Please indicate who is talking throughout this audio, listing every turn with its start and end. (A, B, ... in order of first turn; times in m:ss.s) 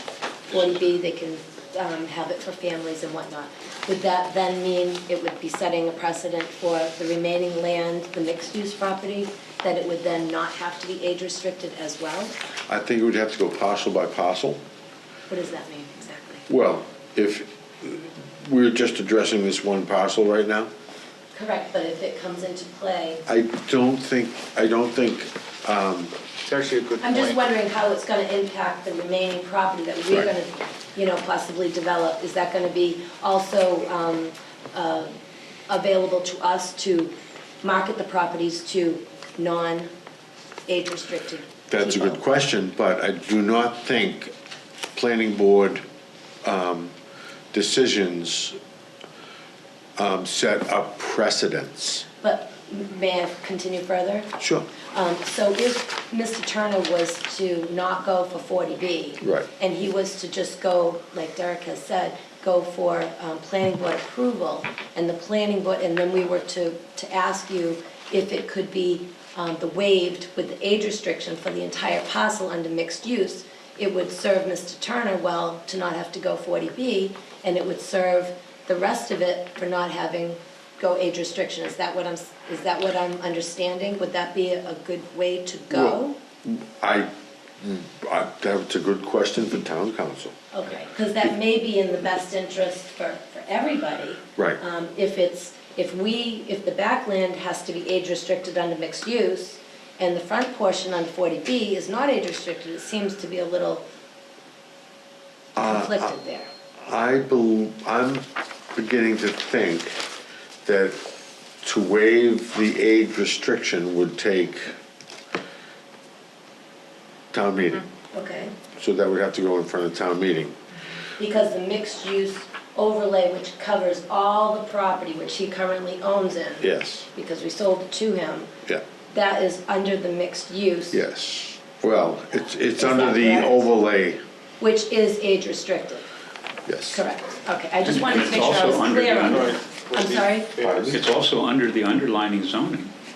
0:00.5-0:12.3 A
0:12.7-0:14.6 B
0:15.3-0:16.4 A
0:16.5-0:20.7 B
0:21.3-0:23.2 A
0:23.2-0:26.1 B
0:26.4-0:27.4 C
0:27.0-0:35.1 A
0:35.7-0:39.9 A
0:40.7-0:42.2 A
0:41.7-0:44.3 B
0:44.9-0:45.8 B
0:46.4-0:46.9 B
0:47.5-0:48.6 B
0:50.0-0:52.0 B
0:52.2-1:26.2 A
0:54.4-0:54.6 B
0:59.2-0:59.5 B
1:25.7-1:27.1 B
1:27.6-1:30.3 B
1:30.5-1:43.8 A
1:45.6-1:46.1 B
1:45.6-1:46.5 A
1:46.8-1:50.0 B
1:50.6-1:51.0 B
1:51.6-1:54.7 B
1:57.3-1:57.8 B
1:58.1-1:58.5 A
1:58.8-2:00.6 B
2:01.2-2:08.5 A
2:06.6-2:07.1 B
2:09.1-2:11.0 A
2:10.9-2:14.2 B
2:12.8-2:13.7 A
2:14.6-2:16.0 A
2:16.7-2:17.0 B
2:16.9-2:20.5 A
2:17.8-2:19.5 D
2:19.2-2:21.0 C
2:20.6-2:21.0 B
2:20.9-2:22.9 D